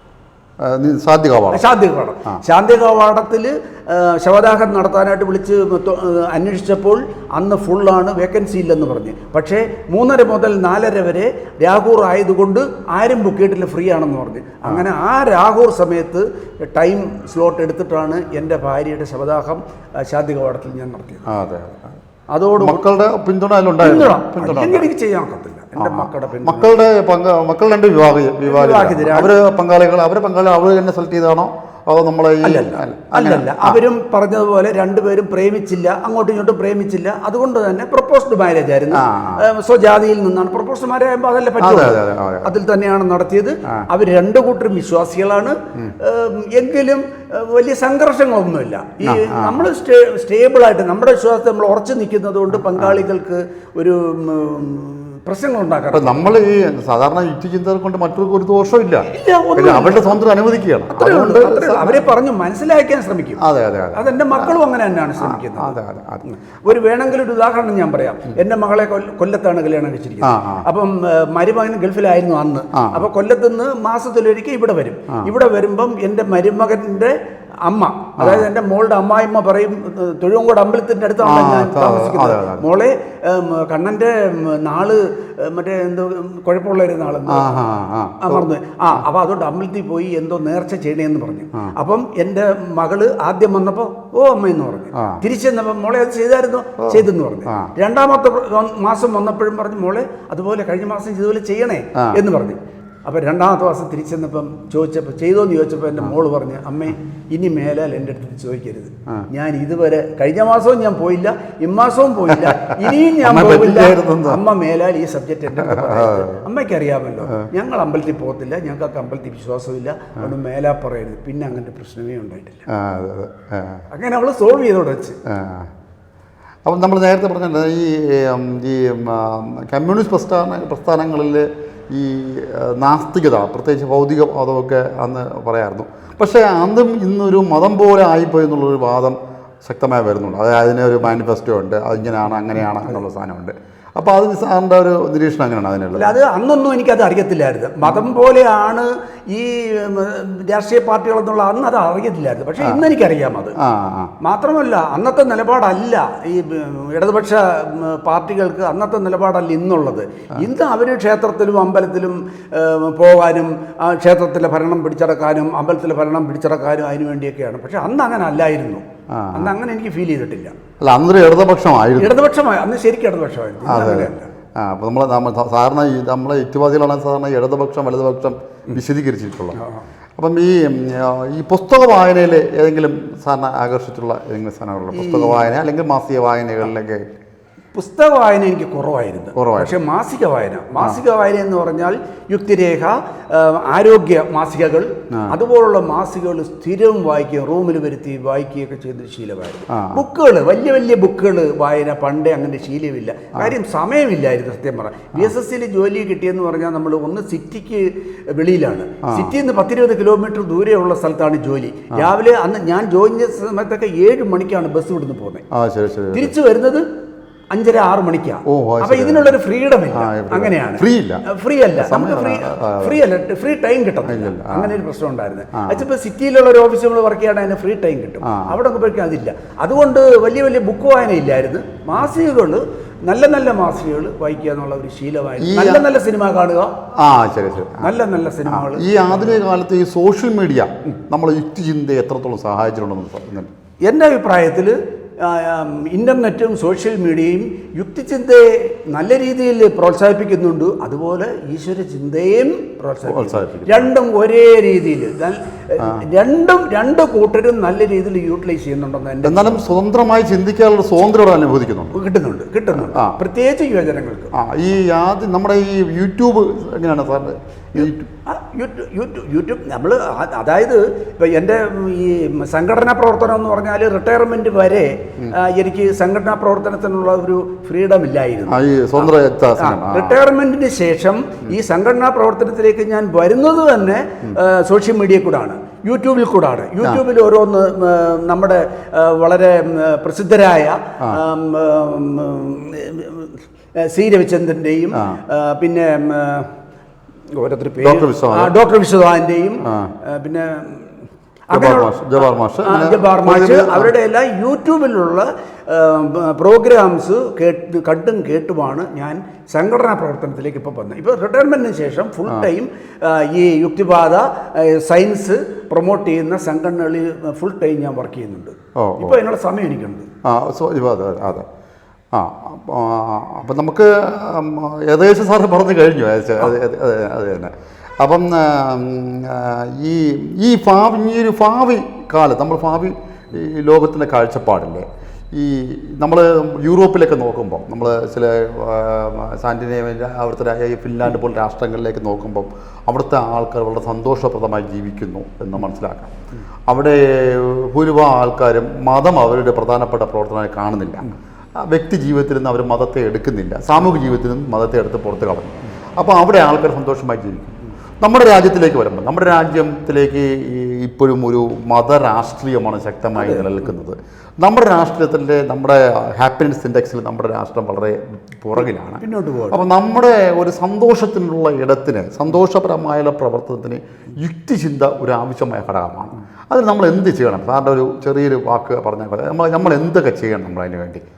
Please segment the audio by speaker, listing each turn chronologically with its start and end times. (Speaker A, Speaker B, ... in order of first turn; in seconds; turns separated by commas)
Speaker A: 0.6-1.6, Speaker B: 1.5-21.3, Speaker A: 21.3-22.0, Speaker B: 22.3-22.8, Speaker A: 22.6-24.9, Speaker B: 23.8-26.8, Speaker A: 25.8-33.8, Speaker B: 28.4-29.3, Speaker B: 32.4-56.2, Speaker A: 38.9-39.5, Speaker A: 41.6-42.5, Speaker A: 49.0-49.6, Speaker A: 52.6-53.0, Speaker A: 55.9-62.0, Speaker B: 59.1-60.2, Speaker B: 60.9-63.4, Speaker A: 63.4-64.5, Speaker B: 63.9-87.5, Speaker A: 65.2-66.2, Speaker A: 70.2-70.6, Speaker A: 72.8-73.0, Speaker A: 78.2-78.5, Speaker A: 81.2-82.7, Speaker A: 87.3-88.5, Speaker B: 88.2-122.6, Speaker A: 94.9-95.2, Speaker A: 112.3-114.4, Speaker A: 115.5-116.4, Speaker A: 122.7-123.8, Speaker B: 123.9-125.2, Speaker A: 125.3-125.7, Speaker A: 126.7-146.1, Speaker B: 145.9-153.6, Speaker A: 152.6-152.9, Speaker A: 153.6-154.1, Speaker B: 154.2-170.6, Speaker A: 169.1-169.5, Speaker A: 170.8-172.2, Speaker B: 172.0-174.3, Speaker A: 173.7-179.6, Speaker B: 179.6-179.8, Speaker A: 180.2-187.0, Speaker B: 184.9-185.4, Speaker B: 187.7-215.4, Speaker A: 189.3-189.7, Speaker A: 199.7-200.0, Speaker A: 215.5-216.3, Speaker B: 216.1-216.8, Speaker B: 217.5-236.7, Speaker A: 218.5-219.4, Speaker A: 219.9-221.2, Speaker A: 221.7-223.0, Speaker A: 224.0-224.7, Speaker A: 228.3-228.5, Speaker A: 235.4-235.8, Speaker A: 237.0-237.9, Speaker B: 237.8-239.4, Speaker A: 238.5-243.5, Speaker B: 243.8-259.8, Speaker A: 253.0-253.9, Speaker A: 259.2-261.9, Speaker B: 261.9-264.3, Speaker A: 262.8-263.1, Speaker A: 264.4-268.1, Speaker B: 267.8-296.5, Speaker A: 278.5-280.2, Speaker B: 297.3-300.9, Speaker A: 297.8-298.5, Speaker A: 299.6-299.9, Speaker B: 301.5-320.1, Speaker A: 301.5-303.9, Speaker A: 318.8-319.2, Speaker A: 320.2-321.4, Speaker A: 322.1-346.1, Speaker A: 346.7-351.1, Speaker A: 351.7-381.0, Speaker B: 363.2-363.7, Speaker B: 368.6-369.6